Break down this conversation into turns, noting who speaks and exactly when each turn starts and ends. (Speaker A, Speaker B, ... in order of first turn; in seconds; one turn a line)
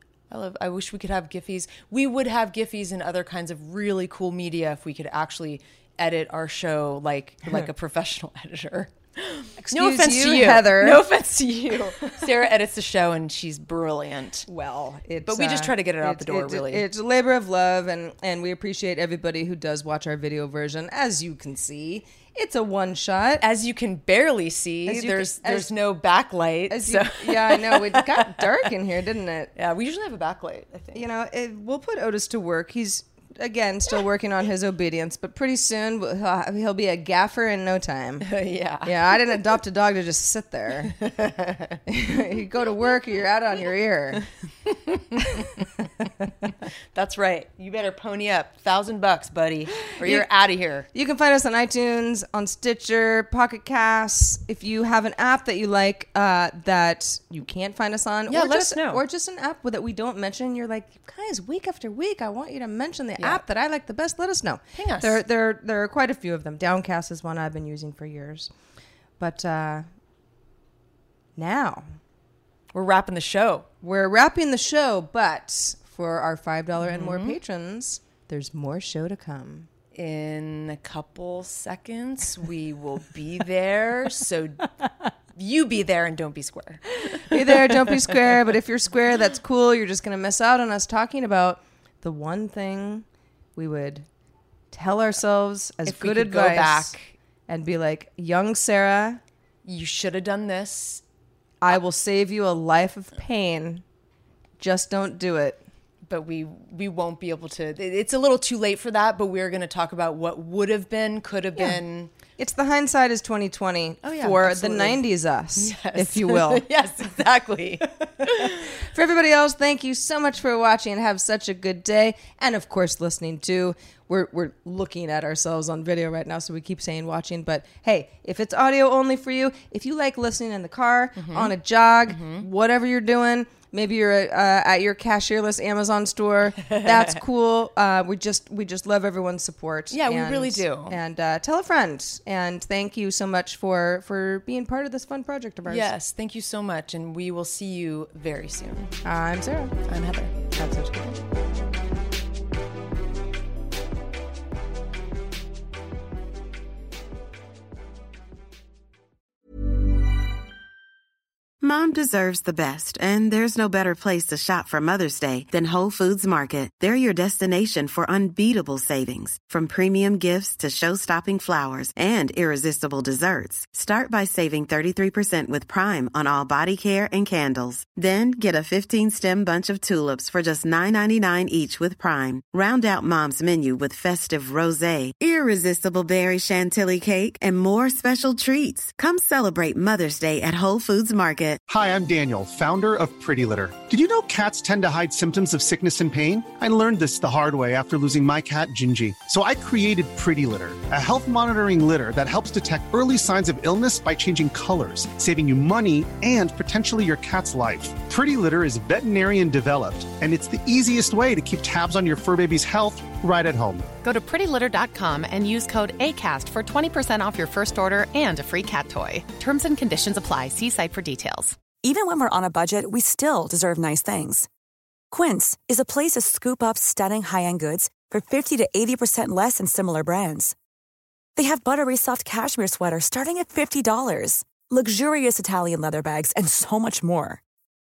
Speaker A: 0.3-14.5
Speaker B: 9.6-11.0
Speaker B: 14.5-23.4
Speaker A: 15.2-16.9
Speaker A: 23.4-28.6
Speaker B: 24.9-25.7
Speaker B: 26.7-29.5
Speaker A: 29.5-31.0
Speaker B: 30.9-38.3
Speaker A: 38.2-39.4
Speaker B: 38.8-40.9
Speaker A: 40.9-41.8
Speaker B: 41.9-44.2
Speaker A: 44.6-45.5
Speaker B: 45.2-45.6
Speaker A: 46.9-50.9
Speaker B: 49.9-50.3
Speaker B: 50.9-68.5
Speaker A: 58.3-59.0
Speaker A: 63.2-63.4
Speaker A: 64.7-65.2
Speaker B: 69.2-69.9
Speaker B: 71.4-71.9
Speaker A: 72.7-73.7
Speaker B: 73.8-79.7
Speaker A: 76.8-77.4
Speaker A: 79.9-84.7
Speaker A: 85.3-88.3
Speaker B: 87.0-93.0
Speaker B: 93.5-94.0
Speaker B: 94.7-96.9
Speaker A: 95.8-97.1
Speaker B: 97.5-99.2
Speaker A: 99.6-101.0
Speaker B: 101.6-103.8
Speaker B: 104.6-105.6
Speaker A: 106.0-112.1
Speaker B: 112.4-116.7
Speaker A: 114.0-115.0
Speaker A: 115.5-118.7
Speaker B: 118.3-145.9
Speaker A: 131.2-131.5
Speaker A: 132.1-132.5
Speaker A: 136.7-137.2
Speaker A: 139.9-141.0
Speaker A: 145.7-148.9
Speaker B: 149.0-149.7
Speaker A: 149.8-151.2
Speaker C: 161.6-191.6
Speaker D: 191.7-213.9
Speaker E: 214.0-221.6
Speaker F: 221.7-224.5
Speaker F: 225.1-230.5
Speaker F: 231.3-237.4